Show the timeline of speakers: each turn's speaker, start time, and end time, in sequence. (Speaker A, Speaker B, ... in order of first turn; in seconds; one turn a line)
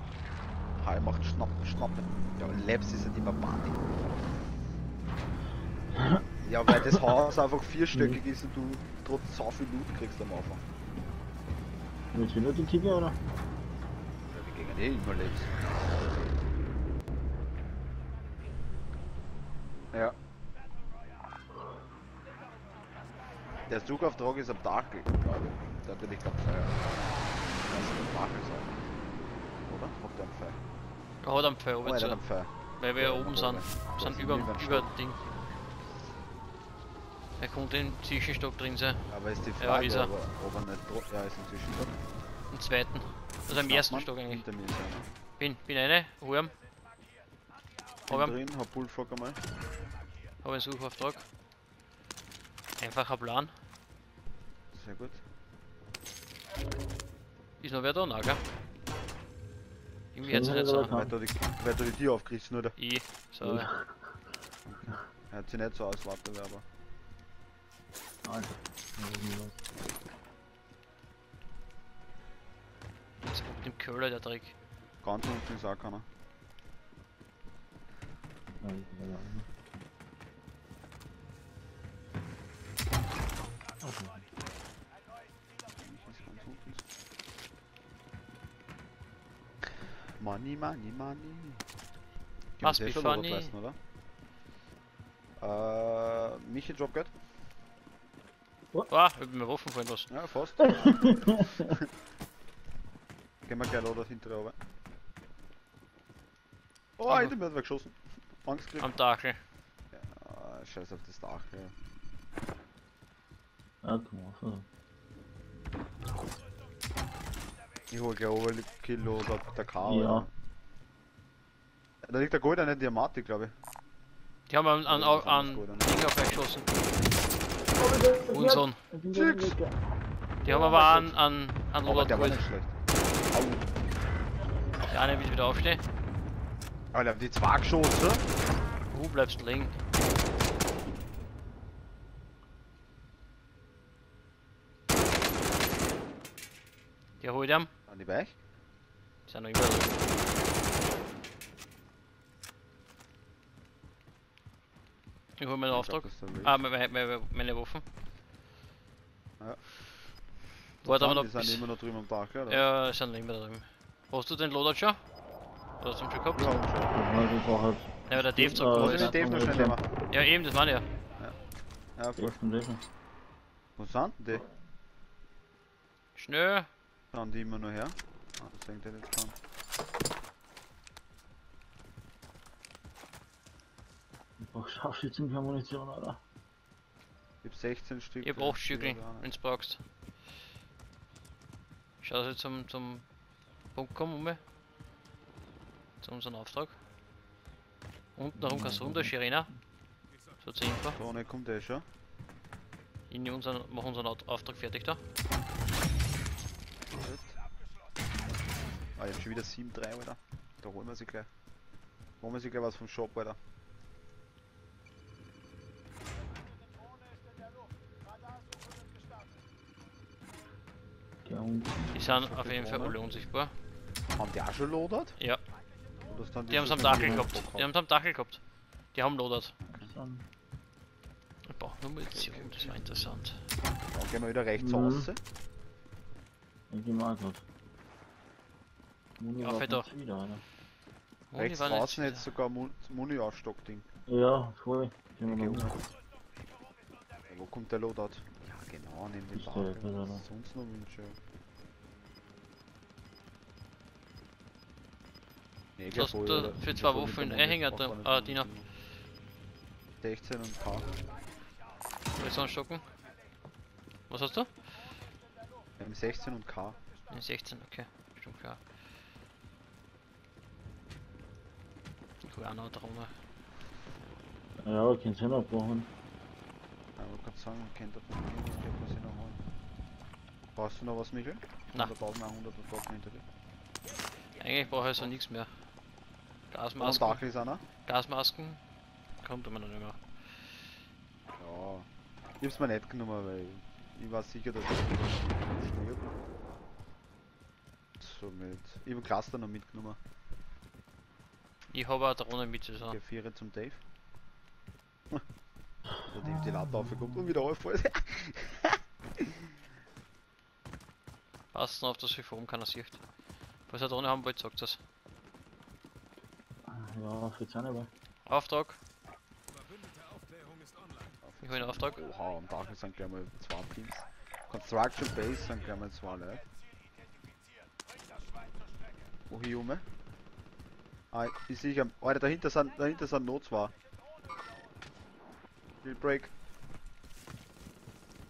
Speaker A: 0.8-3.8
Speaker B: 6.0-6.2
Speaker A: 6.4-10.6
Speaker B: 7.9-8.2
Speaker B: 12.1-13.2
Speaker A: 14.3-15.7
Speaker A: 23.7-26.9
Speaker A: 27.5-28.8
Speaker A: 29.7-30.6
Speaker C: 31.2-32.2
Speaker A: 31.8-34.9
Speaker C: 32.8-35.2
Speaker C: 37.4-39.1
Speaker A: 39.1-42.0
Speaker C: 39.6-40.1
Speaker C: 42.5-44.4
Speaker A: 43.5-45.1
Speaker C: 45.4-46.5
Speaker A: 48.1-49.4
Speaker C: 48.1-48.4
Speaker C: 50.4-51.3
Speaker C: 52.8-53.5
Speaker A: 54.7-55.2
Speaker C: 57.6-58.4
Speaker C: 60.1-61.0
Speaker B: 60.2-61.1
Speaker A: 60.9-62.8
Speaker C: 62.8-63.7
Speaker B: 63.4-63.9
Speaker A: 64.7-66.6
Speaker B: 68.2-69.6
Speaker C: 73.2-74.5
Speaker A: 75.0-76.1
Speaker B: 78.6-79.5
Speaker B: 83.8-84.2
Speaker A: 85.8-86.8
Speaker A: 90.2-91.7
Speaker A: 92.6-93.8
Speaker C: 92.6-93.5
Speaker A: 95.4-97.1
Speaker C: 98.9-100.1
Speaker A: 100.1-101.9
Speaker B: 100.6-101.7
Speaker A: 103.5-104.5
Speaker A: 107.0-108.9
Speaker C: 107.1-107.3
Speaker C: 108.8-109.4
Speaker A: 109.9-111.7
Speaker B: 113.8-114.7
Speaker A: 117.9-120.3
Speaker B: 119.8-120.3
Speaker A: 122.0-123.5
Speaker C: 124.5-126.7
Speaker A: 124.9-126.0
Speaker B: 127.8-129.8
Speaker C: 128.3-128.8
Speaker A: 129.1-129.6
Speaker B: 130.4-130.8
Speaker C: 130.5-132.5
Speaker A: 130.5-131.1
Speaker A: 131.8-132.8
Speaker C: 134.9-135.8
Speaker A: 136.9-138.2
Speaker C: 138.9-139.8
Speaker C: 147.2-147.7
Speaker A: 147.9-148.4
Speaker C: 149.3-150.2
Speaker C: 155.4-157.8
Speaker A: 155.7-156.6
Speaker C: 160.8-161.7
Speaker A: 160.8-162.7
Speaker C: 162.5-165.0
Speaker C: 165.8-166.7
Speaker A: 166.3-167.0
Speaker B: 166.9-169.8
Speaker C: 168.1-169.2
Speaker A: 168.7-169.8
Speaker C: 170.1-170.8
Speaker A: 172.0-172.4
Speaker B: 172.2-172.8
Speaker A: 173.8-174.4
Speaker C: 176.2-176.7
Speaker A: 177.1-179.4
Speaker B: 184.4-186.2
Speaker A: 187.4-189.3
Speaker C: 188.2-189.8
Speaker C: 192.0-193.0
Speaker C: 193.8-194.4
Speaker C: 196.0-196.8
Speaker C: 198.2-199.5
Speaker B: 198.4-199.1
Speaker C: 200.4-201.0
Speaker A: 200.9-201.8
Speaker C: 203.1-205.0
Speaker A: 206.9-207.3
Speaker A: 209.0-211.3
Speaker A: 212.2-213.4
Speaker B: 221.2-221.8
Speaker C: 221.9-223.5
Speaker A: 222.0-223.0
Speaker A: 224.2-225.2
Speaker A: 226.1-227.7
Speaker C: 226.5-228.4
Speaker B: 226.8-227.3
Speaker C: 228.9-229.6
Speaker A: 229.7-229.9
Speaker B: 229.7-230.2
Speaker C: 231.5-233.4
Speaker A: 232.1-232.8
Speaker A: 233.9-235.2
Speaker B: 234.6-235.1
Speaker B: 236.7-237.4
Speaker B: 239.2-240.4
Speaker C: 239.4-239.9
Speaker C: 241.3-242.3
Speaker A: 241.4-243.9
Speaker B: 244.1-245.7
Speaker A: 245.2-245.8
Speaker A: 247.3-251.2
Speaker B: 249.3-250.2
Speaker A: 255.8-258.7
Speaker C: 255.9-258.5
Speaker A: 260.0-260.9
Speaker C: 262.2-262.9
Speaker C: 264.1-264.5
Speaker A: 265.8-266.8
Speaker C: 267.1-268.6
Speaker C: 272.2-273.1
Speaker B: 274.6-275.9
Speaker A: 277.0-279.4
Speaker A: 280.6-283.2
Speaker C: 284.4-285.5
Speaker A: 284.8-285.1
Speaker C: 286.5-287.2
Speaker A: 286.8-287.6
Speaker C: 287.9-288.6
Speaker C: 289.2-290.6
Speaker A: 291.4-291.9
Speaker A: 292.4-296.1
Speaker A: 298.0-300.0
Speaker C: 301.7-303.0
Speaker A: 302.9-303.8
Speaker A: 306.1-309.4
Speaker C: 311.5-313.0
Speaker C: 313.7-314.8
Speaker B: 316.7-317.9
Speaker C: 318.3-318.8
Speaker A: 321.2-326.4
Speaker C: 321.4-322.0
Speaker A: 329.3-329.9
Speaker A: 331.1-333.7
Speaker A: 335.8-336.3